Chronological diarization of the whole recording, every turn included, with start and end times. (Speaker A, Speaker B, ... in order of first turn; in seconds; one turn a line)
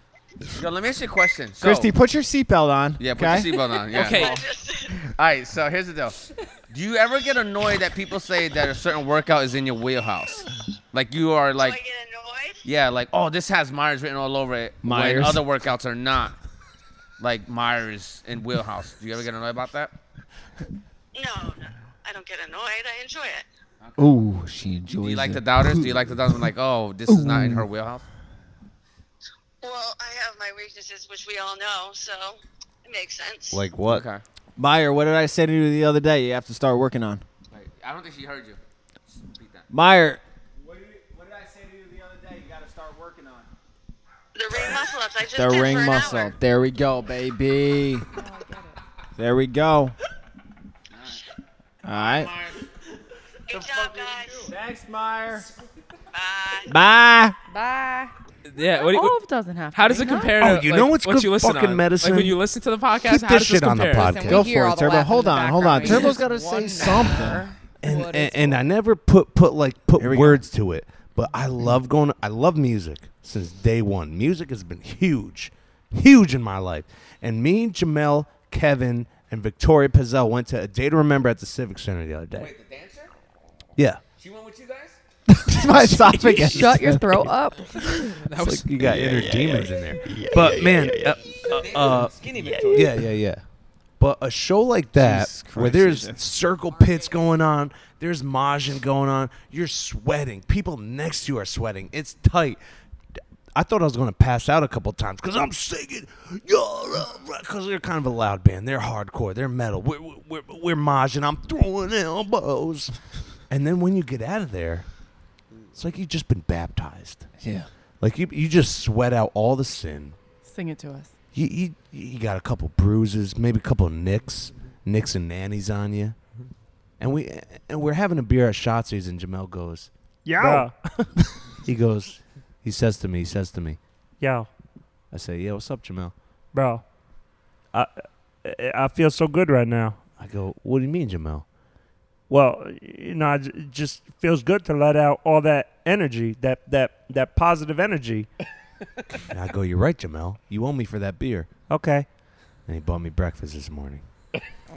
Speaker A: 0.5-1.9
Speaker B: 1.6-3.5
Speaker A: 3.0-4.3
Speaker C: 3.9-4.4
Speaker D: 3.9-5.1
Speaker A: 5.1-6.2
Speaker A: 6.7-11.8
Speaker D: 11.6-12.6
Speaker A: 12.7-16.4
Speaker B: 14.8-15.4
Speaker A: 17.2-19.9
Speaker D: 21.1-23.5
Speaker A: 23.8-24.1
Speaker B: 24.0-26.4
Speaker A: 24.9-28.0
Speaker B: 27.1-27.7
Speaker D: 29.6-33.6
Speaker E: 33.5-34.1
Speaker A: 33.9-34.2
Speaker B: 34.6-37.2
Speaker A: 37.5-39.6
Speaker B: 39.7-43.5
Speaker D: 44.4-46.4
Speaker B: 45.3-48.1
Speaker F: 48.1-48.8
Speaker B: 49.2-50.0
Speaker B: 51.8-52.3
Speaker A: 51.9-52.7
Speaker D: 53.5-54.5
Speaker A: 53.5-54.5
Speaker B: 54.5-55.5
Speaker D: 56.1-56.7
Speaker B: 56.7-57.4
Speaker F: 57.5-58.1
Speaker C: 58.5-59.2
Speaker F: 58.8-60.5
Speaker C: 59.7-64.2
Speaker E: 60.4-62.4
Speaker E: 63.0-64.5
Speaker F: 64.0-68.6
Speaker B: 64.3-67.4
Speaker E: 67.8-82.5
Speaker B: 70.0-70.4
Speaker A: 82.3-83.1
Speaker E: 83.8-84.0
Speaker A: 84.2-85.0
Speaker B: 85.3-87.1
Speaker E: 85.7-86.8
Speaker F: 86.4-88.1
Speaker C: 87.8-88.7
Speaker E: 88.3-93.4
Speaker B: 89.0-91.1
Speaker A: 91.4-93.0
Speaker E: 94.0-102.6
Speaker B: 95.0-96.2
Speaker E: 103.5-112.9
Speaker E: 113.5-114.9
Speaker E: 115.8-117.3
Speaker B: 117.4-117.7
Speaker E: 118.0-120.2
Speaker F: 120.5-121.1
Speaker E: 121.3-126.2
Speaker E: 127.0-130.7
Speaker G: 130.2-131.1
Speaker E: 131.6-133.8
Speaker G: 134.2-134.5
Speaker E: 135.1-136.1
Speaker G: 136.5-136.8
Speaker G: 137.7-140.0
Speaker E: 140.2-141.4
Speaker G: 142.3-148.3
Speaker E: 149.3-151.5
Speaker G: 151.7-152.1
Speaker E: 152.7-154.0